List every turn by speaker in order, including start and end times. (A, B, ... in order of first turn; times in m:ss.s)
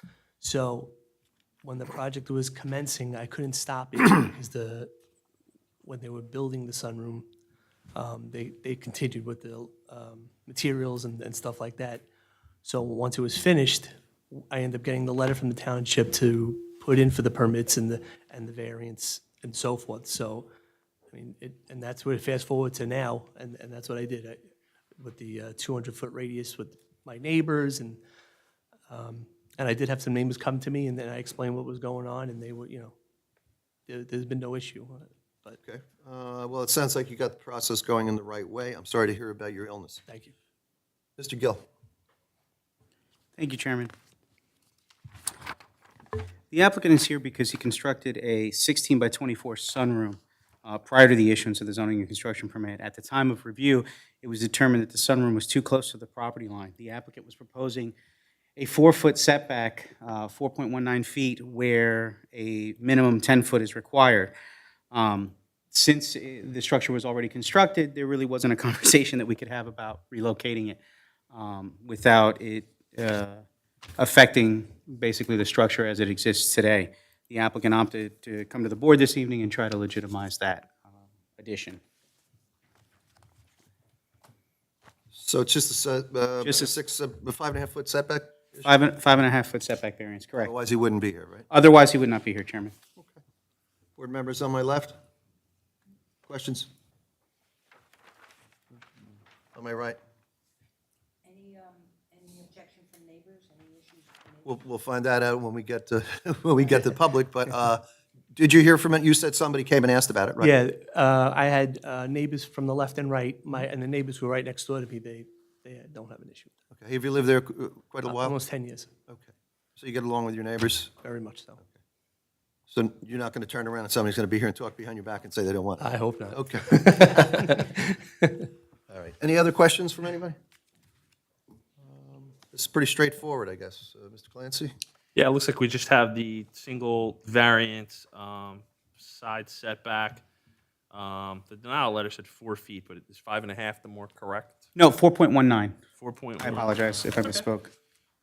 0:00.4-0:00.9 A
0:01.6-0:04.9 A
0:05.8-0:07.3 A
0:07.9-0:12.0 A
0:12.6-0:20.5 A
0:21.1-0:28.0 A
0:28.9-0:32.9 A
0:33.9-0:35.6 A
0:35.6-0:40.0 B
0:40.1-0:40.3 A
0:41.2-0:41.6 B
0:43.4-0:43.9 C
0:46.5-0:57.9 C
0:58.6-1:04.3 C
1:04.9-1:10.8 C
1:11.3-1:13.4 C
1:14.0-1:21.8 C
1:25.1-1:28.7 B
1:26.4-1:26.7 C
1:28.6-1:30.5 C
1:30.4-1:31.5 B
1:31.5-1:32.7 C
1:34.0-1:35.0 B
1:36.3-1:36.7 B
1:39.5-1:40.0 B
1:41.2-1:44.5 D
1:44.4-1:50.6 B
1:50.4-1:56.6 A
1:56.7-1:58.4 B
1:58.0-1:58.9 A
1:59.1-2:00.9 B
2:01.0-2:01.6 A
2:02.7-2:07.6 B
2:05.8-2:08.4 A
2:08.9-2:10.4 B
2:11.8-2:14.7 B
2:15.1-2:20.2 E
2:20.9-2:24.6 E
2:24.8-2:25.8 C
2:26.0-2:27.4 E
2:26.4-2:27.7 C